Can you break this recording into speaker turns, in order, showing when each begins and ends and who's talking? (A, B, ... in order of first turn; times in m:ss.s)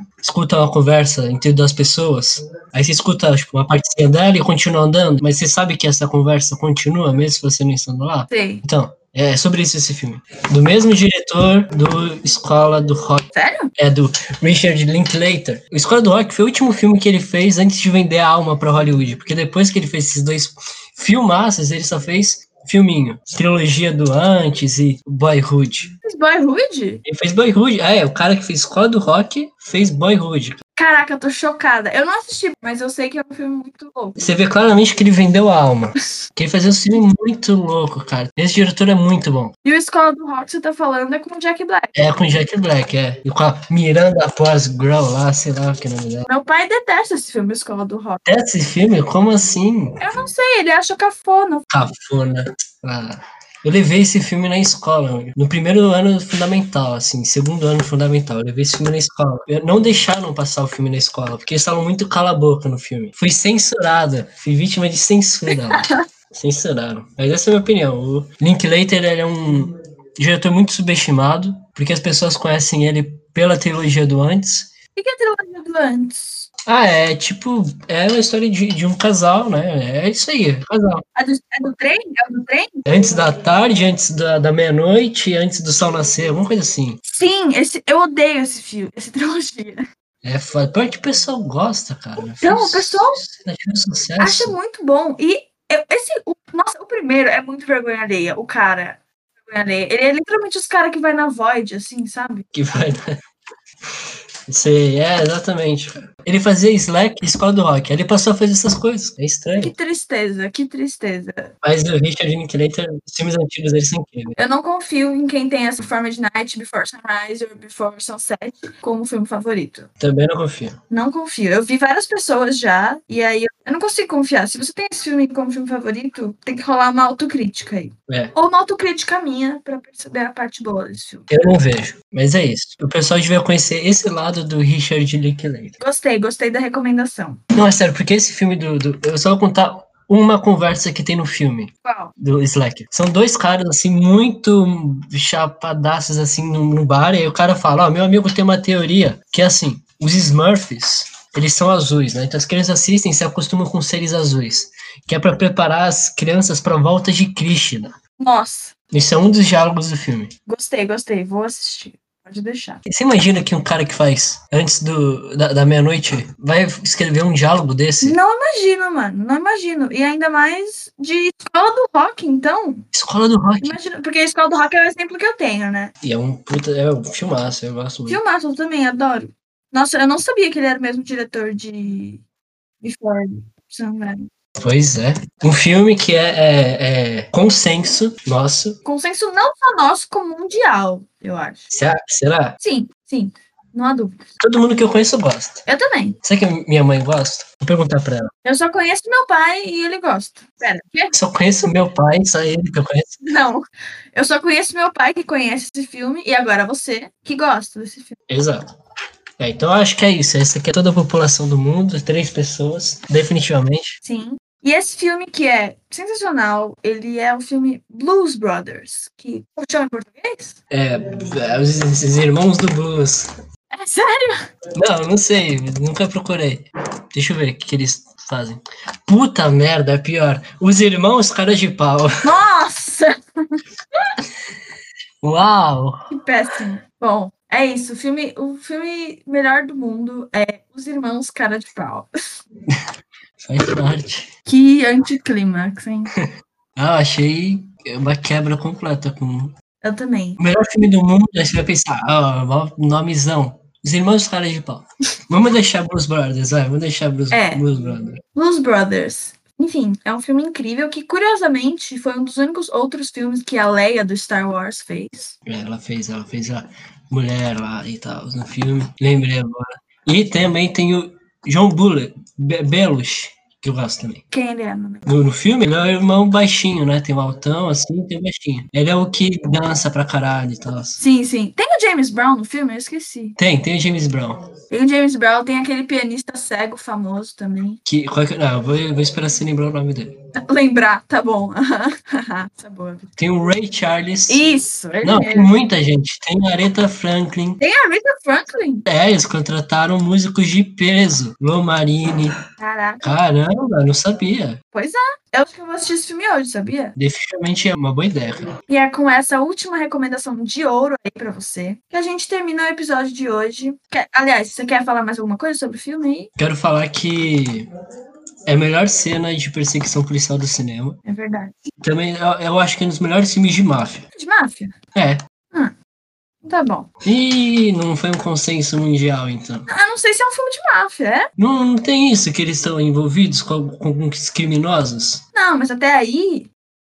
0:00.2-0:13.3 A
0:08.3-0:08.6 B
0:13.3-0:13.7 B
0:13.8-0:25.9 A
0:26.0-0:27.0 B
0:27.0-0:30.6 A
0:30.8-0:34.2 B
0:34.2-0:39.5 A
0:39.6-0:41.9 B
0:42.0-0:46.3 A
0:46.3-0:48.2 B
0:48.3-0:50.1 A
0:50.0-0:51.7 B
0:51.7-1:14.7 A
1:05.5-1:06.0 B
1:15.0-1:16.5 B
1:16.7-1:21.0 A
1:21.2-1:22.8 B
1:22.9-1:27.0 A
1:27.0-1:29.9 B
1:30.2-1:34.6 A
1:32.2-1:33.2 B
1:34.2-1:42.5 B
1:42.5-1:43.1 A
1:44.5-1:49.7 A
1:49.6-1:51.5 B
1:51.6-1:54.4 A
1:54.4-1:59.9 B
2:00.0-2:00.8 A
2:00.9-2:11.3 B
2:08.1-2:08.3 A
2:11.3-2:15.8 A
2:15.8-2:17.4 B
2:17.6-2:37.9 A
2:21.8-2:22.2 B
2:38.2-2:38.7 B
2:38.9-2:40.3 A
2:40.5-2:42.8 B
2:42.9-2:48.2 A
2:48.0-2:52.9 B
2:52.9-2:53.8 A
2:53.6-2:55.9 B
2:56.0-2:58.2 A
2:58.1-3:02.2 B
3:02.8-3:04.3 B
3:04.6-3:08.8 A
3:08.8-3:11.7 B
3:11.7-3:12.6 A
3:12.6-3:14.3 B
3:14.4-3:15.6 A
3:15.7-3:16.2 B
3:16.2-3:18.3 A
3:18.4-3:21.2 B
3:21.1-3:23.2 A
3:23.2-3:28.2 B
3:28.3-3:28.7 A
3:29.4-3:34.0 A
3:34.0-3:40.6 B
3:40.7-3:43.3 A
3:43.7-3:44.3 B
3:44.8-3:52.2 A
3:52.2-3:53.6 B
3:55.2-3:56.1 A
3:56.1-4:02.1 B
4:03.4-4:04.3 A
4:04.5-4:06.1 B
4:06.8-4:09.6 A
4:09.8-4:10.4 B
4:10.4-4:18.2 A
4:17.3-4:17.6 B
4:18.4-4:25.4 B
4:25.5-4:34.2 A
4:34.3-4:35.1 B
4:35.1-4:41.0 A
4:41.0-4:43.4 B
4:43.4-4:44.4 A
4:44.7-4:47.8 B
4:47.8-4:50.2 A
4:50.4-4:53.1 B
4:53.2-4:54.4 A
4:54.3-4:55.5 B
4:55.0-4:57.6 A
4:57.6-4:58.9 B
4:58.9-5:02.4 A
5:02.6-5:03.2 B
5:03.0-5:04.6 A
5:04.7-5:07.0 B
5:07.0-5:08.4 A
5:08.7-5:16.3 B
5:16.4-5:17.7 A
5:18.5-5:21.0 A
5:21.0-5:21.7 B
5:21.8-5:24.0 A
5:24.2-5:24.7 B
5:25.0-5:25.2 A
5:26.4-5:26.9 B
5:27.0-5:29.7 A
5:29.7-5:31.3 B
5:31.4-5:35.2 A
5:35.3-5:36.5 B